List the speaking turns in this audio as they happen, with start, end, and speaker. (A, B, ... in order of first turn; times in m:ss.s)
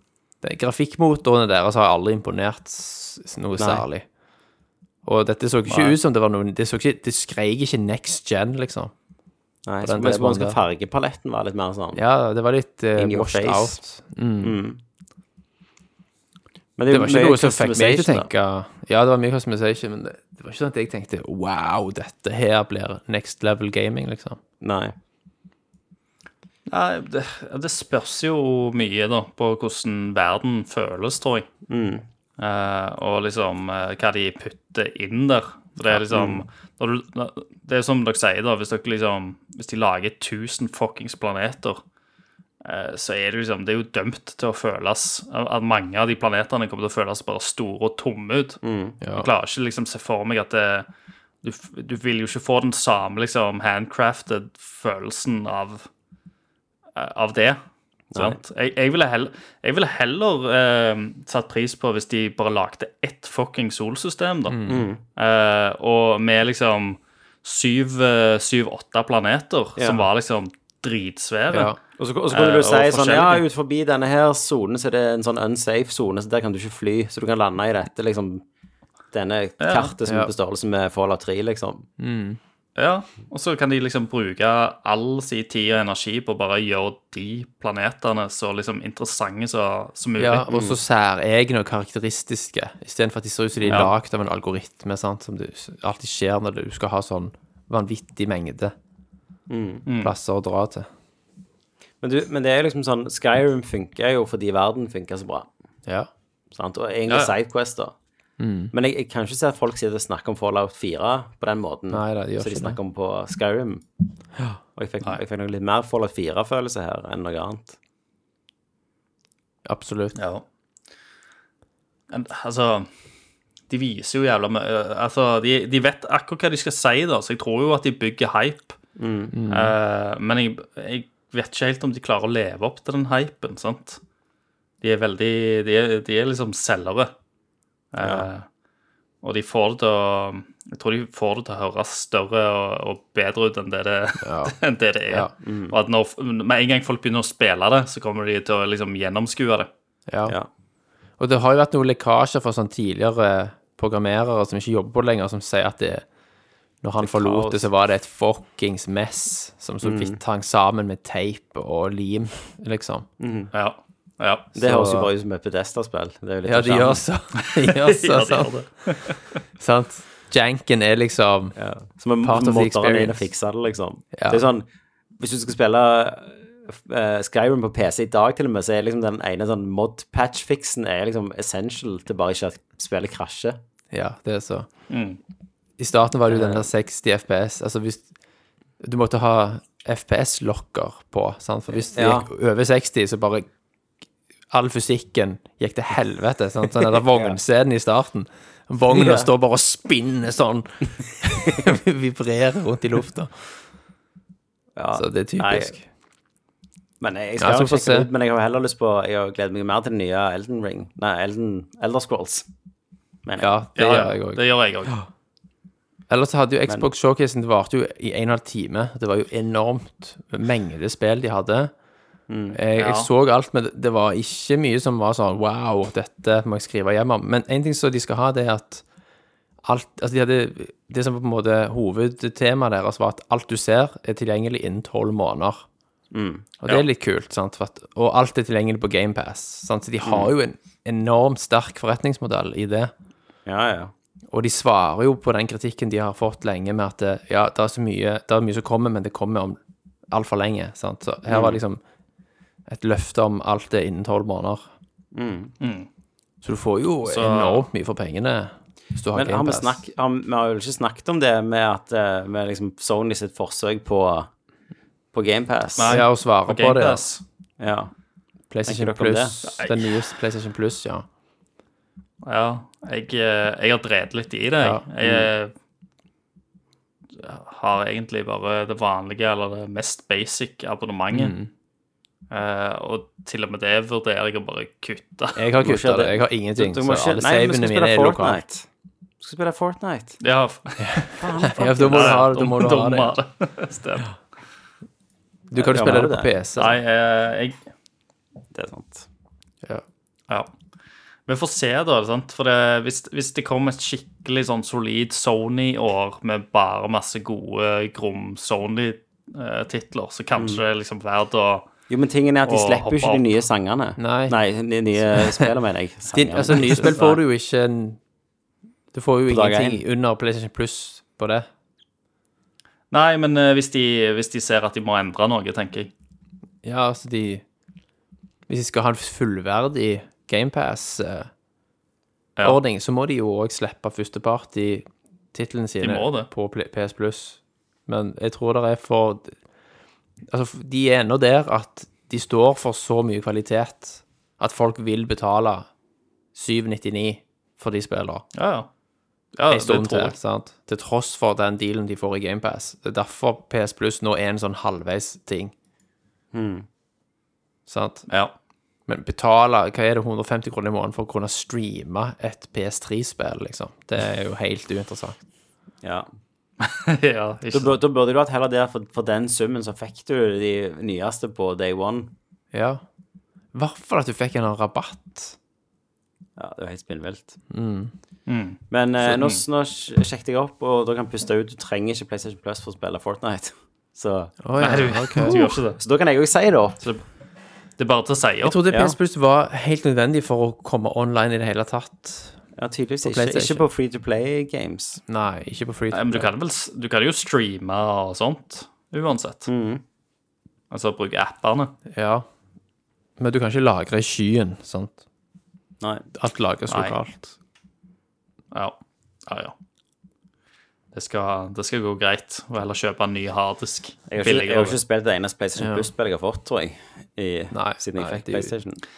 0:00.4-0:04.0 A
0:03.6-0:03.8 B
0:05.0-0:08.9 A
0:09.6-0:12.0 B
0:09.8-0:10.6 A
0:11.9-0:14.6 A
0:13.0-0:13.8 B
0:14.4-0:14.8 B
0:16.8-0:18.3 B
0:16.9-0:24.4 A
0:24.6-0:24.9 B
0:26.7-0:31.5 C
0:31.7-0:32.0 B
0:32.4-0:41.8 C
0:36.1-0:36.4 B
0:42.6-0:48.6 C
0:48.6-0:49.0 B
0:49.0-0:49.3 A
0:49.1-0:50.9 C
0:51.4-0:55.9 C
0:57.0-0:57.6 C
0:58.1-0:58.4 B
0:58.2-1:04.6 C
1:04.5-1:04.8 A
1:04.7-1:05.0 B
1:05.2-1:11.8 C
1:09.8-1:10.0 B
1:11.5-1:11.8 A
1:12.0-1:18.4 B
1:12.3-1:13.4 C
1:19.1-1:21.9 B
1:19.6-1:19.9 C
1:22.0-1:22.4 A
1:22.8-1:30.5 C
1:30.2-1:38.7 A
1:30.5-1:30.8 B
1:33.6-1:33.9 C
1:39.5-1:39.8 B
1:39.9-1:40.1 C
1:40.0-1:40.9 A
1:42.0-1:45.5 B
1:46.5-1:47.9 B
1:47.1-1:47.3 C
1:48.4-1:48.7 A
1:48.7-1:53.8 B
1:51.9-1:52.8 A
1:54.7-1:57.8 B
1:59.6-2:00.2 A
2:00.2-2:00.4 C
2:02.1-2:02.9 C
2:03.7-2:08.8 C
2:09.0-2:09.3 B
2:09.3-2:09.7 A
2:09.5-2:14.0 C
2:14.8-2:17.1 C
2:17.9-2:18.4 C
2:18.0-2:18.2 B
2:19.2-2:29.7 C
2:24.2-2:24.5 A
2:25.4-2:25.7 B
2:30.1-2:30.3 A
2:31.2-2:36.0 A
2:36.8-2:43.1 A
2:37.0-2:37.6 C
2:39.8-2:40.2 B
2:43.2-2:43.5 B
2:43.5-2:44.5 C
2:44.5-2:47.0 B
2:44.6-2:45.1 A
2:46.4-2:49.0 A
2:47.4-2:49.4 C
2:49.6-2:51.6 A
2:51.6-2:54.6 B
2:52.2-2:53.2 A
2:54.1-2:54.4 A
2:55.2-3:03.6 B
3:03.9-3:04.7 A
3:04.9-3:05.2 C
3:05.8-3:08.1 A
3:06.3-3:06.7 B
3:08.8-3:13.5 A
3:11.9-3:12.3 B
3:14.5-3:23.5 A
3:18.9-3:19.3 B
3:24.8-3:25.7 B
3:24.9-3:25.8 A
3:27.0-3:32.5 B
3:27.4-3:28.1 A
3:33.2-3:33.5 B
3:33.4-3:34.4 A
3:33.8-3:34.9 C
3:36.1-3:41.7 A
3:42.3-3:42.6 B
3:42.5-3:48.8 A
3:42.8-3:43.1 C
3:49.6-3:55.6 A
3:56.1-3:56.5 B
3:56.6-4:02.9 A
4:00.0-4:00.3 B
4:03.4-4:03.9 B
4:04.3-4:09.6 A
4:10.1-4:11.8 A
4:11.3-4:11.6 B
4:12.7-4:14.6 A
4:15.1-4:15.5 B
4:15.6-4:15.9 C
4:16.4-4:19.8 A
4:17.0-4:17.6 C
4:19.1-4:24.3 B
4:25.1-4:25.9 B
4:25.8-4:27.2 C
4:25.8-4:27.0 A
4:27.6-4:27.9 B
4:28.5-4:31.0 A
4:28.6-4:29.4 B
4:29.4-4:29.9 C
4:32.2-4:35.5 C
4:35.0-4:35.3 B
4:37.2-4:41.4 C
4:41.1-4:41.5 A
4:42.3-4:45.4 C
4:45.4-4:48.4 A
4:45.6-4:48.7 B
4:49.2-4:50.2 B
4:50.2-4:51.2 C
4:50.8-4:53.1 A
4:51.2-4:52.2 B
4:51.8-4:54.1 C
4:55.5-4:56.8 A
4:55.6-4:56.3 B
4:56.6-4:57.6 C
4:58.5-4:59.1 B
5:01.3-5:11.7 C
5:10.4-5:10.6 B
5:11.9-5:17.1 B
5:12.4-5:13.4 C
5:14.0-5:14.4 A
5:15.1-5:15.5 A
5:16.1-5:18.0 A
5:16.8-5:17.1 C
5:18.9-5:21.5 A
5:19.3-5:19.8 B
5:22.9-5:25.9 C
5:26.6-5:27.4 A
5:28.5-5:31.3 A
5:32.4-5:39.4 A
5:35.8-5:36.3 C
5:40.3-5:45.7 A
5:46.3-5:48.2 A
5:48.3-5:48.7 C
5:49.4-5:50.1 C
5:49.5-5:55.5 A
5:56.3-5:56.6 B
5:57.7-5:58.1 A
5:58.9-6:05.2 A
6:06.6-6:07.7 C
6:07.5-6:12.1 B
6:12.5-6:12.8 A
6:13.5-6:15.4 A
6:16.4-6:17.4 B
6:17.5-6:17.9 A
6:18.3-6:19.4 C
6:18.7-6:24.3 B
6:24.4-6:25.5 A
6:24.6-6:25.8 C
6:25.2-6:26.8 B
6:27.8-6:28.6 C
6:28.4-6:32.4 A
6:28.7-6:29.0 B
6:32.6-6:35.0 B
6:33.0-6:33.6 A
6:35.1-6:36.3 A
6:35.9-6:39.5 C
6:39.5-6:39.8 B
6:40.7-6:41.7 C
6:41.9-6:42.2 A
6:43.2-6:45.0 A
6:46.1-6:47.3 A
6:46.7-6:47.0 C
6:48.5-6:49.5 C
6:50.9-6:54.8 C
6:54.1-6:58.8 B
6:55.6-6:55.9 A
6:57.5-6:58.5 A